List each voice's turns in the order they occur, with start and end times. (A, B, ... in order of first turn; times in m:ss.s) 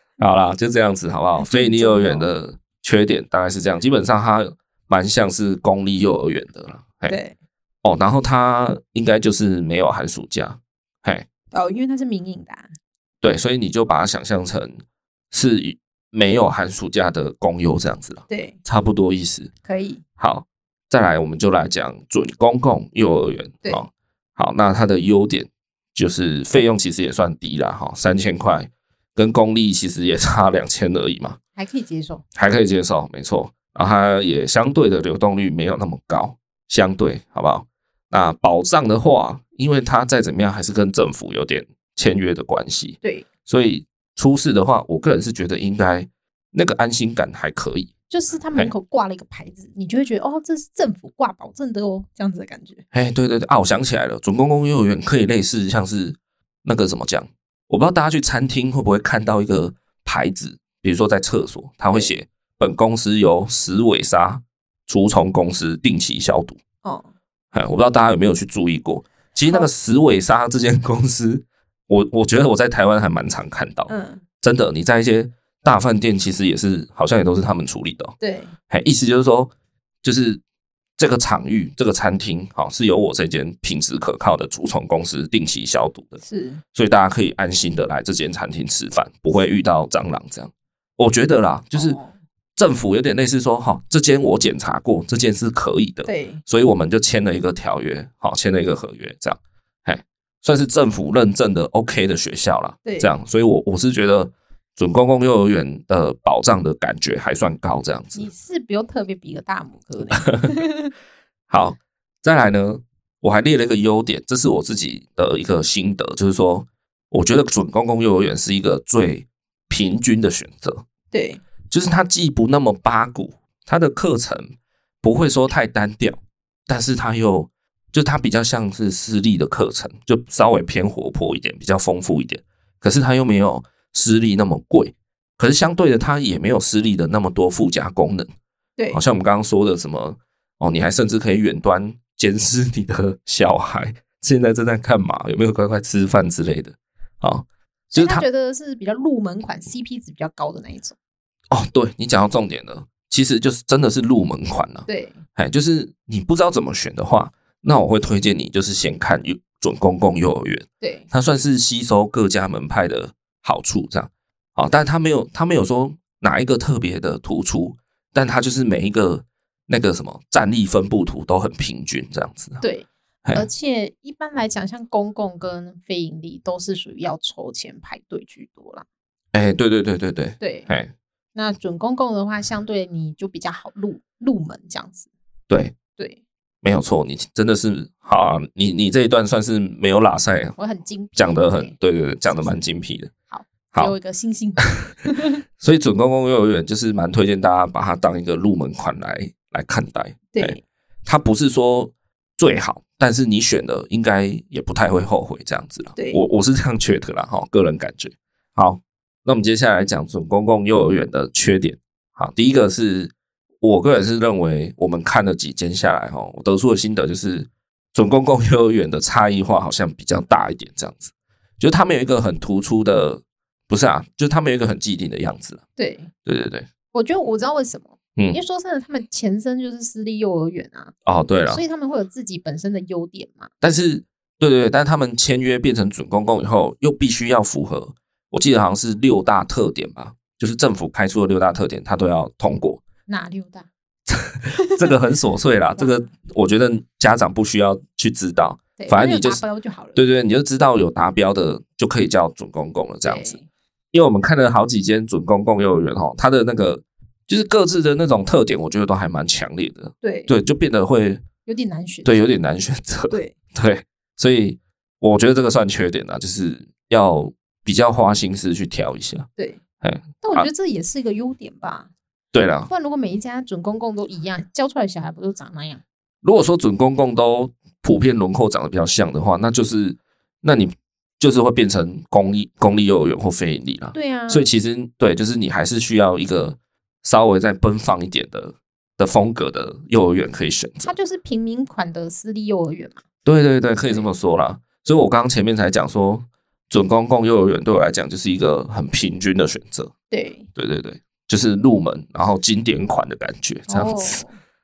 0:00.2-0:07.2 A
0:01.4-0:02.3 B
0:07.1-0:07.4 B
0:07.8-0:11.3 A
0:11.5-0:12.7 B
0:13.2-0:14.8 A
0:15.3-0:19.5 A
0:18.3-0:18.6 B
0:19.6-0:20.0 B
0:20.2-0:31.4 A
0:31.6-0:32.2 B
0:32.4-0:47.9 A
0:48.1-0:52.8 B
0:52.9-1:06.6 A
1:06.8-1:07.1 B
1:07.5-1:18.2 A
1:13.9-1:14.2 B
1:18.2-1:18.5 B
1:18.7-1:19.5 A
1:20.0-1:20.4 A
1:21.0-1:26.2 A
1:26.2-1:26.6 B
1:26.7-1:32.0 A
1:31.7-1:32.1 B
1:32.6-1:48.3 A
1:36.1-1:36.4 B
1:42.8-1:43.1 B
1:48.2-1:50.9 B
1:50.2-1:50.5 A
1:51.5-2:00.8 A
2:01.1-2:01.4 B
2:01.7-2:18.3 A
2:18.9-2:28.2 A
2:27.9-2:31.0 B
2:31.5-2:52.6 A
2:34.9-2:35.2 B
2:40.8-2:41.1 B
2:52.6-2:58.8 B
2:59.3-3:00.9 A
3:00.4-3:00.7 B
3:01.4-3:05.1 B
3:05.5-3:05.8 A
3:06.6-3:10.6 A
3:10.6-3:11.8 B
3:11.2-3:13.1 A
3:12.3-3:12.6 B
3:13.3-3:15.4 B
3:15.6-3:45.6 A
3:20.3-3:20.6 B
3:26.0-3:26.2 B
3:45.8-3:46.1 B
3:46.2-3:46.7 A
3:46.9-3:50.9 B
3:51.1-3:51.6 A
3:51.5-3:53.5 B
3:53.6-4:02.8 A
4:03.1-4:03.7 B
4:04.1-4:09.4 A
4:04.6-4:04.9 B
4:05.8-4:06.1 B
4:08.8-4:10.0 B
4:10.0-4:13.4 A
4:13.0-4:13.5 B
4:13.9-4:21.2 A
4:20.0-4:20.3 B
4:21.5-4:22.3 B
4:22.0-4:29.3 A
4:29.8-4:30.5 A
4:30.2-4:31.9 B
4:32.3-4:32.7 A
4:32.7-4:35.8 B
4:36.2-4:51.0 A
4:43.9-4:44.5 B
4:50.8-4:53.0 B
4:53.2-4:59.9 A
5:00.1-5:00.5 B
5:00.6-5:04.2 A
5:03.7-5:04.4 B